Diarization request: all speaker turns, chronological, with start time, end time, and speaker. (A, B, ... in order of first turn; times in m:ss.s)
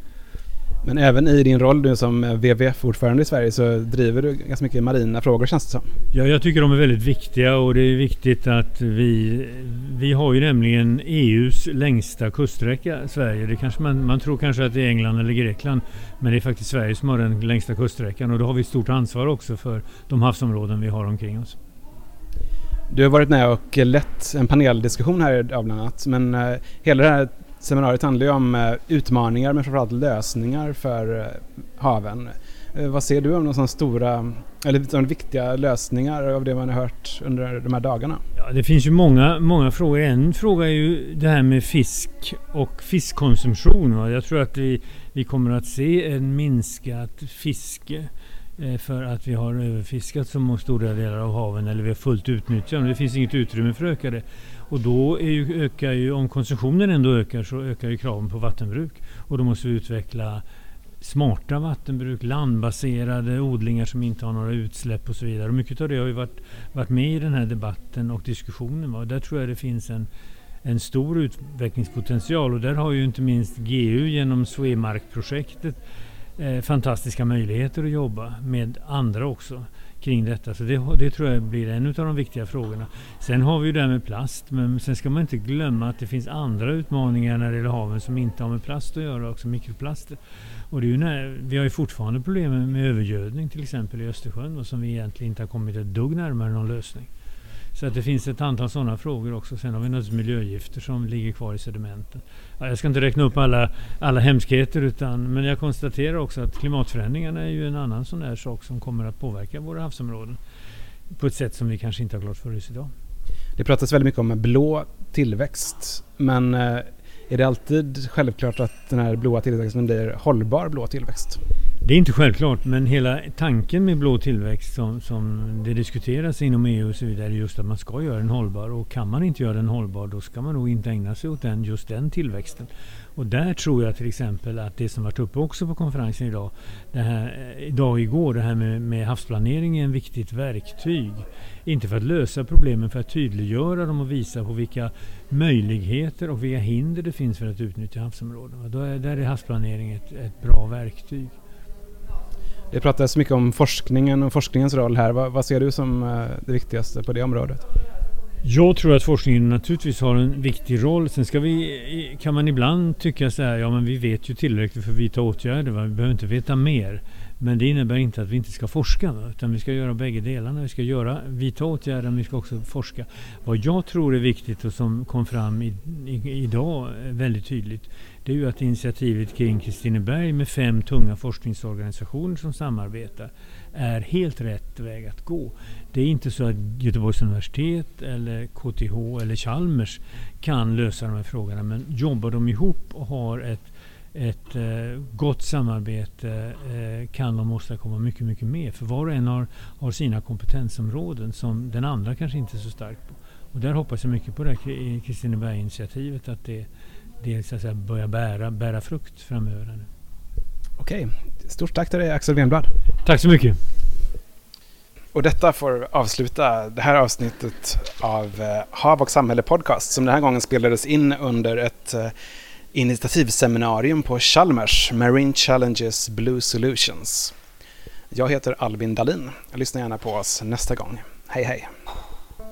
0:00.8-0:05.9 A
0:06.1-0:21.6 B
0:22.9-0:38.2 A
0:38.4-1:00.4 B
1:01.0-1:10.1 B
1:10.6-1:15.8 B
1:16.4-1:30.2 B
1:30.7-1:37.1 B
1:37.7-1:50.4 B
1:51.1-1:52.9 B
1:53.6-2:01.4 A
2:01.8-2:31.4 B
2:32.7-2:37.6 A
2:38.4-3:26.7 B
3:27.2-3:29.9 B
3:30.8-3:32.7 A
3:33.0-3:33.6 B
3:35.1-3:42.1 A
3:42.7-3:47.3 A
3:48.1-3:51.7 A